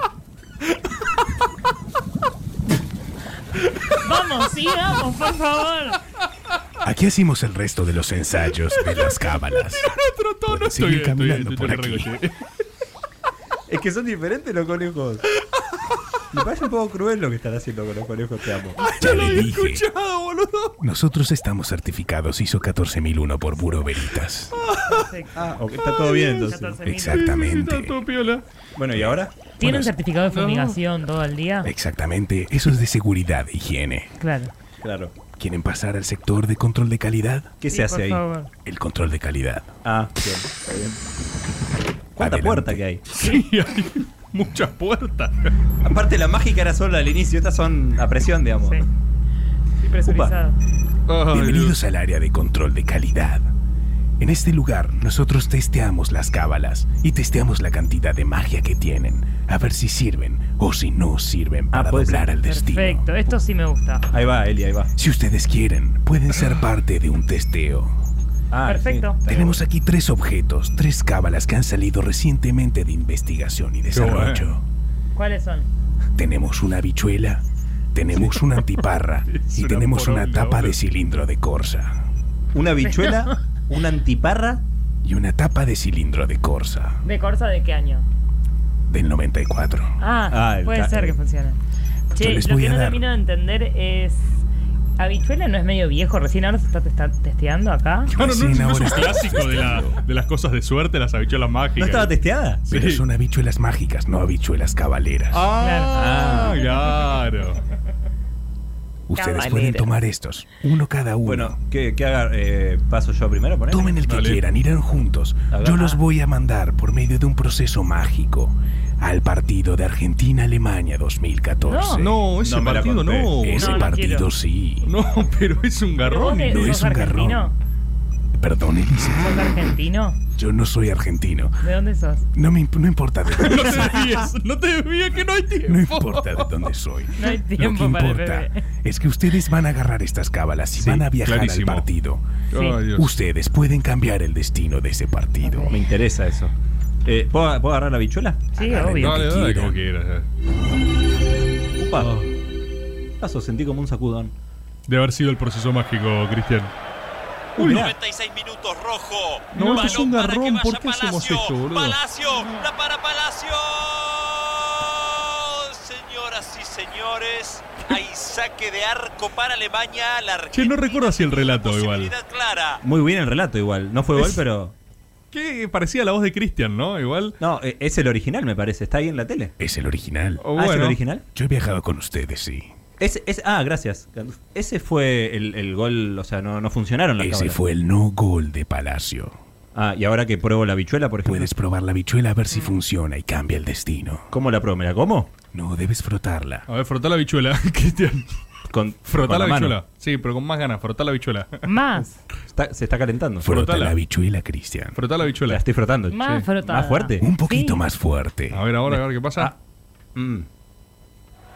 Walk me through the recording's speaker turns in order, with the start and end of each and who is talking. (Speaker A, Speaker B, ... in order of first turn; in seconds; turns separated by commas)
Speaker A: 4.0-6.0, Speaker B: 6.8-9.9, Speaker C: 9.7-12.4, Speaker B: 10.5-12.1, Speaker D: 13.7-15.2, Speaker D: 16.3-18.9, Speaker C: 18.8-20.8, Speaker B: 18.9-19.8, Speaker B: 20.8-24.5, Speaker C: 24.6-25.0, Speaker A: 24.9-25.3, Speaker D: 25.3-26.8, Speaker C: 26.0-26.5, Speaker A: 26.4-27.2, Speaker B: 26.8-27.9, Speaker C: 27.1-28.4, Speaker D: 28.8-29.3, Speaker A: 29.6-31.7, Speaker C: 30.3-30.8, Speaker B: 31.6-34.1, Speaker A: 34.2-34.5, Speaker D: 34.8-35.1, Speaker B: 35.3-37.5, Speaker D: 37.6-38.2, Speaker A: 37.7-38.5, Speaker B: 38.6-39.8, Speaker D: 39.8-41.0, Speaker D: 42.1-43.0, Speaker B: 42.2-42.8, Speaker C: 43.1-45.5, Speaker D: 45.8-48.8, Speaker A: 49.8-50.6, Speaker D: 50.0-50.3, Speaker C: 51.1-51.8, Speaker B: 51.3-53.5, Speaker B: 54.2-63.0, Speaker D: 61.7-62.3, Speaker A: 62.4-64.1, Speaker D: 64.1-64.9, Speaker B: 65.0-67.9, Speaker D: 68.5-69.6, Speaker A: 68.7-69.2, Speaker B: 69.3-74.6, Speaker C: 73.9-74.4, Speaker A: 75.1-75.7, Speaker B: 76.2-77.4, Speaker B: 77.9-82.0, Speaker C: 79.3-80.8, Speaker D: 82.5-84.6, Speaker A: 82.8-83.2, Speaker B: 85.0-87.0, Speaker A: 87.0-88.0, Speaker B: 88.9-89.9, Speaker A: 90.0-91.6, Speaker D: 90.3-91.2, Speaker B: 92.1-93.0, Speaker A: 92.1-94.4, Speaker A: 95.0-98.1, Speaker B: 98.1-100.0, Speaker C: 98.1-102.1, Speaker D: 101.8-102.7, Speaker C: 102.7-103.0, Speaker B: 102.7-105.5, Speaker C: 105.3-107.6, Speaker A: 105.6-106.3, Speaker D: 105.9-106.6, Speaker B: 109.1-111.6, Speaker A: 109.1-109.9, Speaker D: 111.2-114.0, Speaker B: 113.7-122.2, Speaker C: 114.0-114.4, Speaker D: 115.5-116.0, Speaker A: 121.6-122.1, Speaker C: 122.0-123.8, Speaker D: 122.4-123.5, Speaker B: 123.4-124.9, Speaker A: 123.5-124.3, Speaker C: 124.8-126.8, Speaker A: 126.0-127.5, Speaker B: 126.5-127.5, Speaker B: 128.3-129.6, Speaker A: 129.1-130.2, Speaker B: 130.3-131.6, Speaker A: 131.6-132.3, Speaker B: 132.3-134.0, Speaker C: 133.4-136.6, Speaker B: 135.7-142.2, Speaker A: 137.2-138.5, Speaker C: 140.8-141.8, Speaker C: 142.5-143.1, Speaker A: 142.5-142.8, Speaker B: 142.9-145.7, Speaker A: 145.4-145.8, Speaker D: 145.7-146.5, Speaker D: 147.0-149.8, Speaker A: 148.5-149.1, Speaker B: 148.9-149.4, Speaker C: 149.0-150.3, Speaker D: 151.8-152.1, Speaker C: 152.0-152.3, Speaker D: 153.2-154.3, Speaker C: 154.9-156.7, Speaker C: 157.6-157.9, Speaker D: 157.6-157.9, Speaker E: 157.7-172.8, Speaker A: 159.5-160.1, Speaker C: 159.5-162.6, Speaker C: 170.5-172.1, Speaker D: 172.8-174.7, Speaker C: 175.3-177.4, Speaker D: 177.4-179.5, Speaker B: 179.6-180.5, Speaker C: 180.4-181.0, Speaker D: 180.6-181.2, Speaker B: 181.3-182.7, Speaker D: 183.0-187.6, Speaker B: 187.2-189.4, Speaker D: 189.7-191.5, Speaker B: 191.2-194.3, Speaker D: 194.3-195.3, Speaker B: 195.5-196.7, Speaker C: 196.7-198.2, Speaker D: 198.7-199.7, Speaker C: 199.1-201.6, Speaker A: 201.6-202.2, Speaker D: 202.5-203.8, Speaker B: 203.4-205.0, Speaker C: 203.4-203.9, Speaker C: 204.9-205.6, Speaker D: 205.4-207.3, Speaker A: 206.1-207.8, Speaker B: 207.2-208.6, Speaker C: 208.5-209.5, Speaker D: 208.9-209.5, Speaker D: 210.1-210.4